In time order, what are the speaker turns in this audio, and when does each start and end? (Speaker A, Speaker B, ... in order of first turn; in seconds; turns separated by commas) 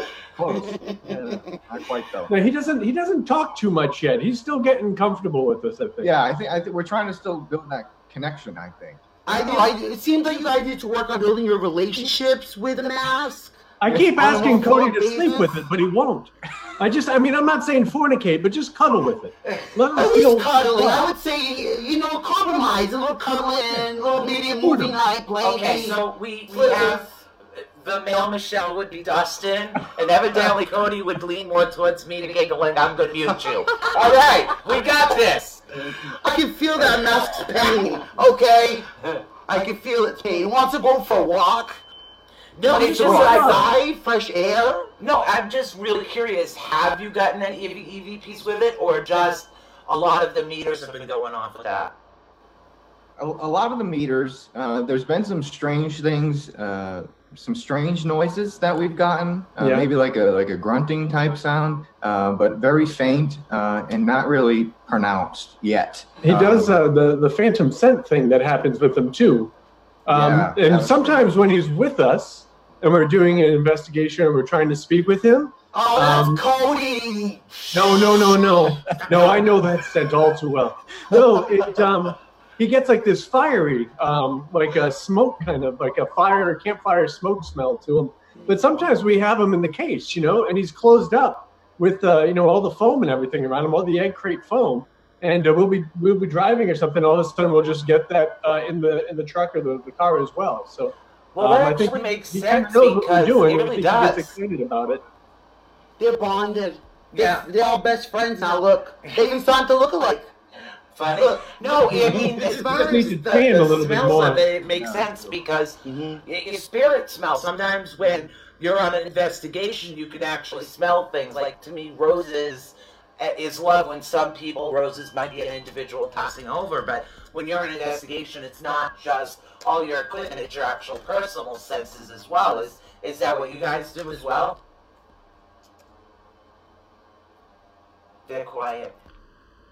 Speaker A: 0.4-2.3, Speaker B: 0.5-1.4, Speaker C: 2.3-6.1, Speaker A: 6.0-9.7, Speaker B: 9.2-13.6, Speaker C: 13.8-21.1, Speaker B: 14.1-15.6, Speaker B: 19.9-27.1, Speaker C: 24.6-24.9, Speaker D: 25.4-27.1, Speaker D: 27.6-35.6, Speaker B: 33.8-34.2, Speaker A: 35.7-36.1, Speaker B: 36.2-38.9, Speaker B: 39.5-41.8, Speaker D: 42.5-43.7, Speaker B: 42.7-44.9, Speaker C: 42.9-43.7, Speaker D: 45.0-51.9, Speaker A: 53.2-66.8, Speaker C: 59.6-59.9, Speaker C: 66.2-69.5, Speaker C: 70.0-76.4, Speaker A: 70.1-71.2, Speaker B: 75.7-78.3, Speaker C: 77.7-105.0, Speaker D: 101.3-104.3, Speaker B: 106.0-110.3, Speaker D: 107.1-107.5, Speaker D: 110.9-134.6, Speaker B: 111.1-113.5, Speaker C: 111.9-114.5, Speaker A: 114.7-115.1, Speaker B: 115.8-116.2, Speaker D: 138.3-138.9